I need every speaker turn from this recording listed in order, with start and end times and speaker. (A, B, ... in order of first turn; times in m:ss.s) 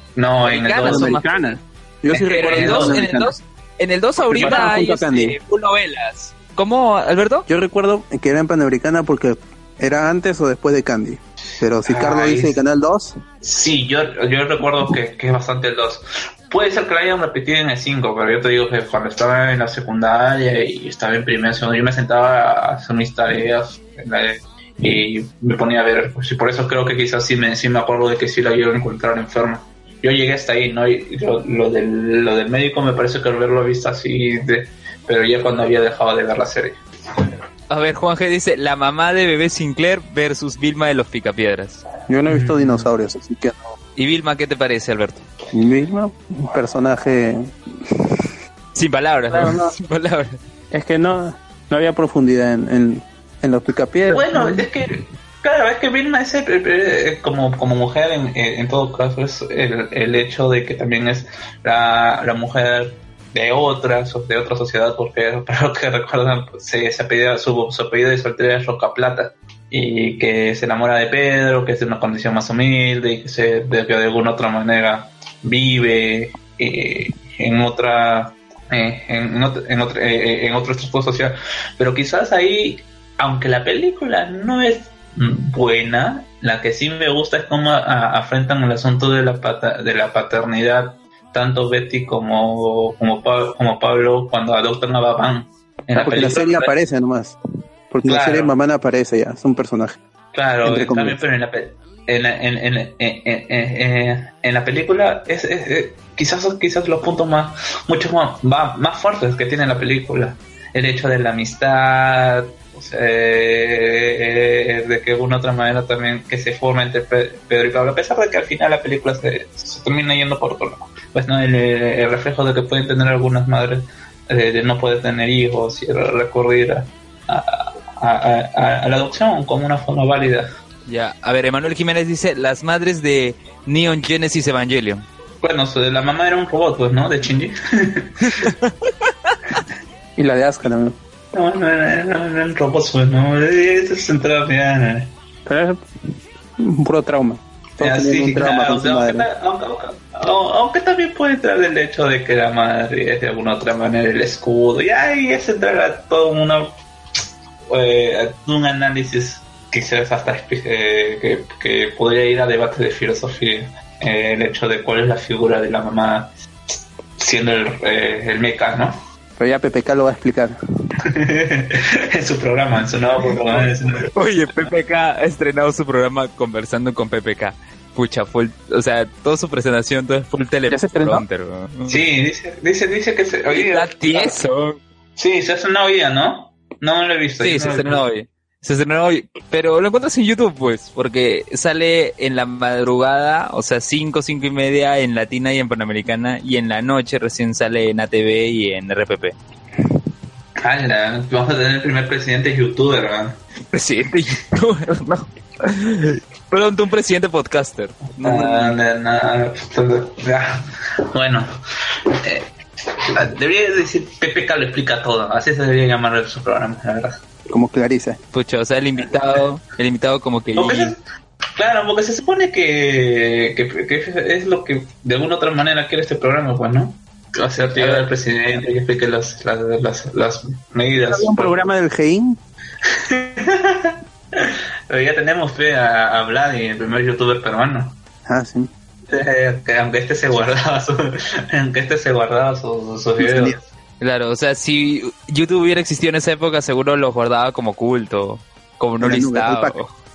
0:00.2-0:01.2 A
0:00.4-0:01.6 B
0:00.8-0:03.4 C
0:02.1-0:03.0 A
0:02.1-0:07.5 B
0:04.2-0:05.4 C
0:04.4-0:04.8 A
0:07.5-0:13.2 C
0:11.8-0:12.6 A
0:13.4-0:36.8 A
0:37.7-0:41.8 B
0:42.1-0:43.6 C
0:42.3-0:42.9 A
0:44.0-0:45.2 B
0:45.5-0:48.2 C
0:48.7-0:50.4 B
0:49.3-0:49.7 C
0:50.7-0:54.7 C
0:54.1-1:36.7 A
1:35.9-1:37.4 C
1:37.9-1:40.0 C
1:38.0-1:38.5 A
1:40.3-2:10.5 A
1:40.6-1:41.2 C
2:10.9-2:15.0 B
2:15.4-2:18.5 A
2:20.2-2:21.0 C
2:21.3-2:25.1 A
2:25.4-2:25.8 C
2:26.6-2:29.3 C
2:27.8-2:36.7 A
2:37.7-2:46.3 A
2:47.2-2:48.9 A
2:49.4-2:50.6 C
2:51.0-2:54.1 A
2:54.1-3:02.0 B
3:00.7-3:01.2 C
3:01.9-3:04.4 A
3:03.5-3:04.8 B
3:05.2-3:08.0 A
3:07.4-3:19.4 B
3:20.6-3:23.4 A
3:23.7-3:28.8 B
3:28.2-3:30.6 A
3:31.1-3:31.5 A
3:33.1-3:37.1 A
3:37.5-3:38.2 C
3:38.3-3:40.9 B
3:40.5-3:41.0 A
3:41.6-3:51.7 A
3:47.8-3:48.6 B
3:51.0-3:52.4 C
3:52.8-3:58.0 A
3:58.2-3:58.7 C
3:59.1-4:03.6 A
4:03.2-4:03.6 C
4:04.0-4:09.9 B
4:09.0-4:09.8 C